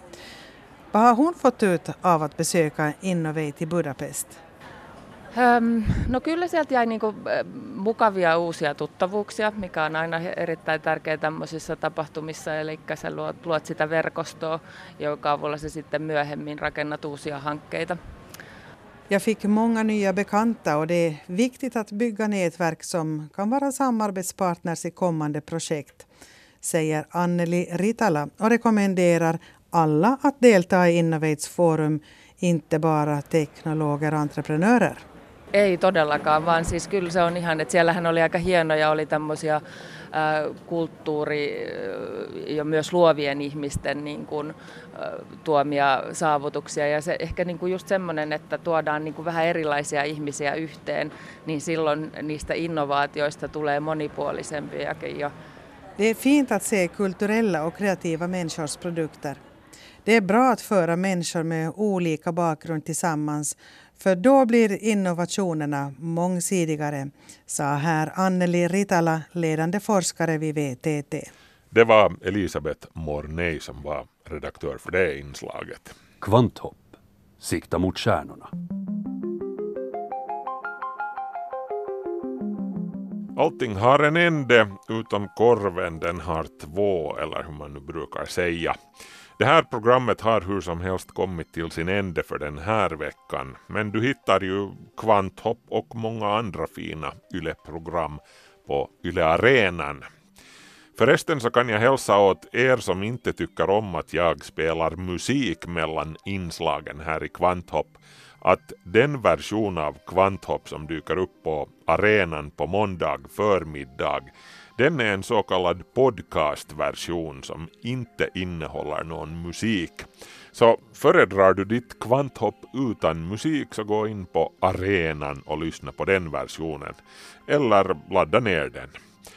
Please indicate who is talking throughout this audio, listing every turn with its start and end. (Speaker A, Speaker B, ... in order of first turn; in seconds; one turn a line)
Speaker A: 0.9-4.4
Speaker B: 5.3-18.0
Speaker A: 19.1-26.1
Speaker A: 26.6-35.0
Speaker B: 35.5-55.3
Speaker A: 56.0-59.4
Speaker A: 60.0-71.3
Speaker C: 71.7-76.0
Speaker D: 76.2-78.5
Speaker C: 83.4-88.8
Speaker C: 89.4-100.1
Speaker C: 101.0-128.9